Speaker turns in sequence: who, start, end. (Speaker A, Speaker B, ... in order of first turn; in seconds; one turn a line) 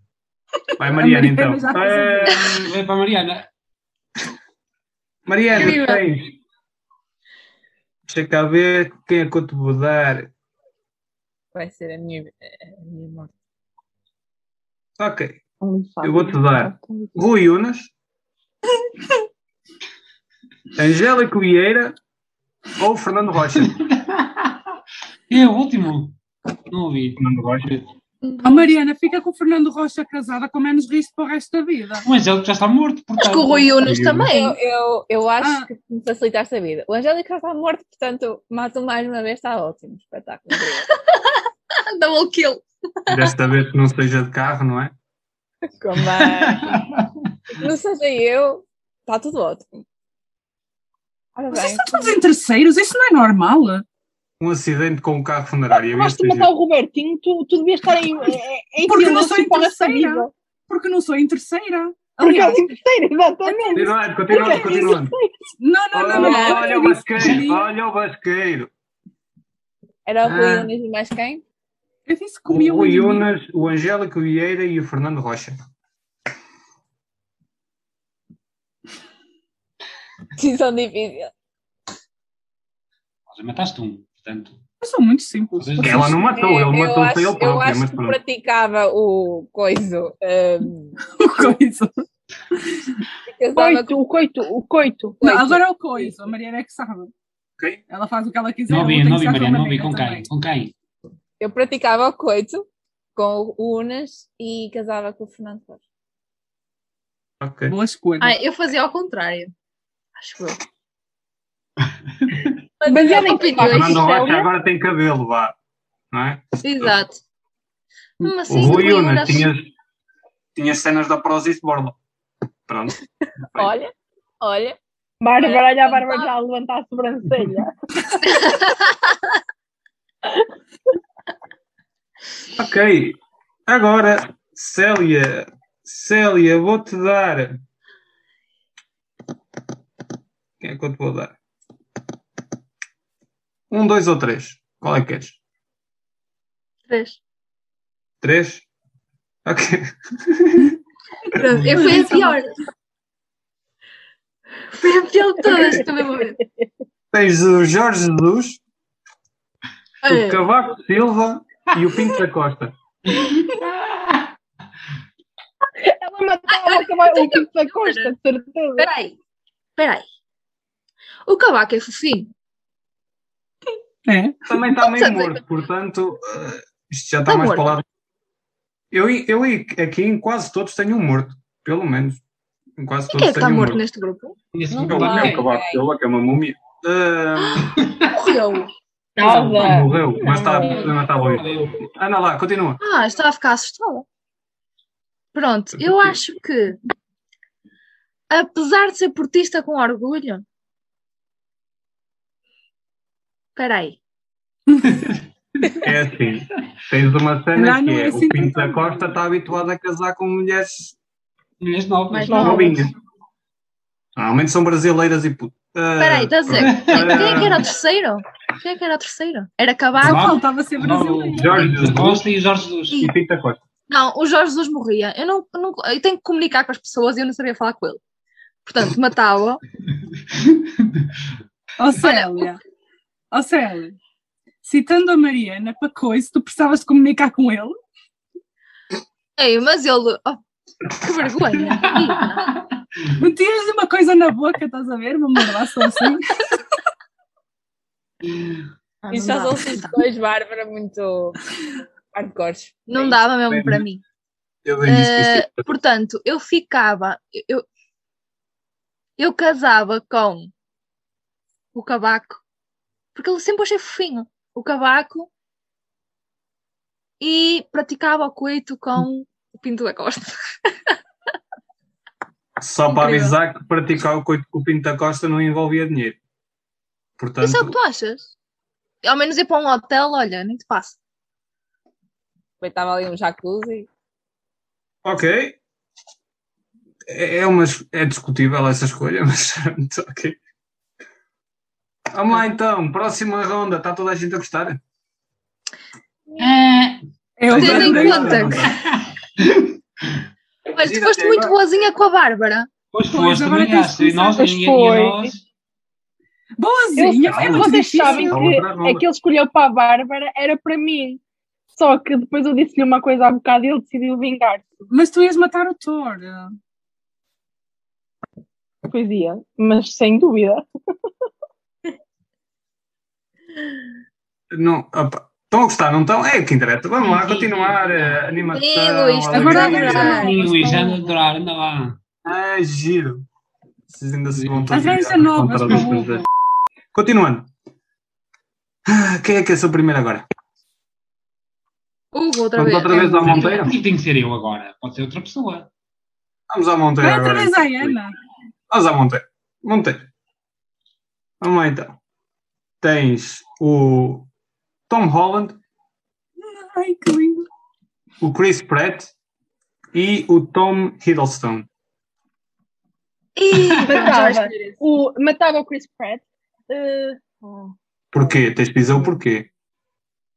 Speaker A: 0.8-2.7
Speaker B: 0.8-2.4
Speaker C: 2.3-3.5
Speaker A: 5.2-6.4
Speaker D: 5.5-6.0
Speaker A: 8.1-10.3
Speaker E: 11.5-13.3
Speaker A: 15.0-15.4
Speaker F: 15.6-17.1
Speaker A: 16.0-17.9
Speaker A: 20.8-21.9
Speaker A: 22.8-23.7
Speaker C: 23.6-24.6
Speaker C: 25.3-26.2
Speaker C: 26.7-27.9
Speaker A: 27.2-27.7
Speaker D: 28.2-28.7
Speaker B: 28.4-32.1
Speaker C: 32.0-34.0
Speaker D: 33.2-34.6
Speaker A: 33.8-34.3
Speaker E: 34.3-40.9
Speaker B: 35.4-35.7
Speaker D: 41.1-43.3
Speaker A: 43.1-44.9
Speaker E: 45.8-46.8
Speaker C: 46.0-47.3
Speaker E: 47.6-49.7
Speaker E: 51.3-52.2
Speaker B: 51.5-53.8
Speaker A: 54.4-56.5
Speaker F: 55.7-60.3
Speaker B: 58.8-62.7
Speaker F: 62.2-65.3
Speaker B: 63.4-65.0
Speaker A: 63.7-65.1
Speaker B: 65.6-67.7
Speaker A: 65.9-68.7
Speaker E: 66.1-66.7
Speaker E: 70.0-71.4
Speaker A: 70.2-70.7
Speaker B: 72.1-73.3
Speaker A: 72.5-75.5
Speaker E: 80.4-81.3
Speaker C: 83.3-84.6
Speaker B: 84.8-86.2
Speaker C: 85.5-86.1
Speaker A: 85.8-88.2
Speaker E: 86.3-91.5
Speaker B: 91.0-91.9
Speaker E: 93.3-94.0
Speaker F: 93.5-95.2
Speaker E: 95.2-96.1
Speaker B: 95.2-97.1
Speaker B: 97.9-100.3
Speaker C: 98.7-100.7
Speaker E: 101.4-105.8
Speaker A: 107.4-107.8
Speaker B: 107.7-108.3
Speaker D: 108.2-109.5
Speaker D: 110.2-110.6
Speaker D: 112.8-114.3
Speaker F: 112.8-114.5
Speaker A: 113.6-115.5
Speaker A: 116.1-116.9
Speaker D: 116.6-117.2
Speaker D: 118.2-119.5
Speaker A: 118.5-119.7
Speaker A: 120.5-122.0
Speaker A: 122.7-123.0
Speaker E: 123.5-124.8
Speaker F: 125.2-127.7
Speaker E: 125.4-126.3
Speaker D: 128.2-129.2
Speaker A: 132.6-137.6
Speaker A: 140.6-141.3
Speaker A: 143.7-145.4
Speaker D: 146.9-147.2
Speaker A: 148.2-148.6
Speaker A: 149.4-150.7
Speaker D: 151.3-152.5
Speaker A: 151.5-152.0
Speaker B: 151.7-152.4
Speaker D: 154.7-156.4
Speaker F: 155.4-155.8
Speaker A: 157.1-158.6
Speaker D: 160.0-160.4
Speaker A: 160.1-162.7
Speaker C: 163.1-164.3
Speaker F: 165.8-168.9
Speaker D: 166.5-168.1
Speaker D: 168.8-169.2
Speaker D: 169.8-170.0
Speaker D: 171.3-172.3
Speaker B: 174.1-174.4
Speaker A: 174.4-177.8
Speaker D: 174.8-175.4
Speaker D: 177.3-177.7
Speaker A: 178.9-182.2
Speaker A: 182.8-183.8
Speaker D: 183.1-184.3
Speaker C: 184.5-185.4
Speaker E: 184.7-185.8
Speaker A: 184.8-187.7
Speaker D: 187.6-188.7
Speaker F: 189.2-190.8
Speaker A: 189.2-192.8
Speaker C: 190.3-191.8
Speaker D: 192.8-194.1
Speaker D: 195.3-196.8
Speaker A: 195.8-196.2
Speaker D: 198.3-200.4
Speaker D: 203.6-204.0
Speaker A: 205.8-210.9
Speaker B: 207.5-209.1
Speaker C: 211.6-212.6
Speaker D: 212.1-212.9
Speaker F: 212.3-212.8
Speaker A: 212.3-212.9
Speaker A: 214.2-217.7
Speaker D: 216.0-220.4
Speaker C: 216.5-217.6
Speaker C: 220.0-223.1
Speaker B: 220.0-221.8
Speaker A: 221.3-222.2
Speaker A: 222.9-223.6
Speaker D: 223.9-228.0
Speaker D: 228.6-229.6
Speaker C: 230.3-231.1
Speaker B: 231.8-232.6
Speaker D: 232.0-232.4
Speaker B: 233.3-234.0
Speaker B: 234.6-237.7
Speaker D: 239.4-240.4
Speaker D: 240.9-242.5
Speaker C: 241.7-242.5
Speaker B: 243.2-246.3
Speaker D: 249.0-250.0
Speaker E: 249.1-251.4
Speaker E: 252.1-253.2
Speaker D: 252.9-254.0
Speaker A: 253.5-253.8
Speaker A: 254.6-255.6
Speaker D: 254.8-257.6
Speaker D: 259.2-260.5
Speaker D: 261.7-262.4
Speaker D: 263.1-265.3
Speaker D: 267.2-270.3
Speaker A: 272.6-276.2
Speaker D: 272.9-273.3
Speaker A: 277.2-277.8
Speaker D: 277.4-278.3
Speaker D: 279.0-281.0
Speaker E: 282.6-283.9
Speaker A: 285.0-285.6
Speaker A: 287.1-290.4
Speaker A: 292.1-294.8
Speaker C: 296.4-297.0
Speaker B: 297.4-298.5
Speaker A: 297.5-298.7
Speaker D: 297.5-298.7
Speaker C: 298.6-299.7
Speaker D: 300.7-302.7
Speaker A: 300.8-301.6
Speaker C: 302.9-305.4
Speaker B: 303.1-304.5
Speaker F: 304.4-305.3
Speaker B: 306.6-308.4
Speaker F: 307.0-311.2
Speaker A: 307.3-309.0
Speaker F: 311.7-314.6
Speaker B: 314.9-316.5
Speaker F: 318.9-320.6
Speaker A: 324.5-330.2
Speaker C: 327.0-328.3
Speaker D: 328.5-330.3
Speaker B: 329.3-331.0
Speaker C: 329.7-332.0
Speaker A: 332.2-333.2
Speaker A: 333.9-336.2
Speaker C: 334.3-334.9
Speaker B: 334.7-336.2
Speaker C: 335.7-336.0
Speaker A: 336.9-337.5
Speaker A: 338.9-340.2
Speaker D: 342.1-343.7
Speaker A: 342.5-343.7
Speaker C: 342.9-345.7
Speaker A: 346.5-348.0
Speaker B: 347.0-348.1
Speaker A: 348.7-350.1
Speaker A: 351.4-352.0
Speaker A: 352.8-354.3
Speaker A: 354.9-355.6
Speaker B: 356.4-357.4
Speaker A: 358.2-359.1
Speaker A: 359.9-361.7
Speaker D: 363.4-364.7
Speaker F: 363.8-367.7
Speaker A: 368.1-369.5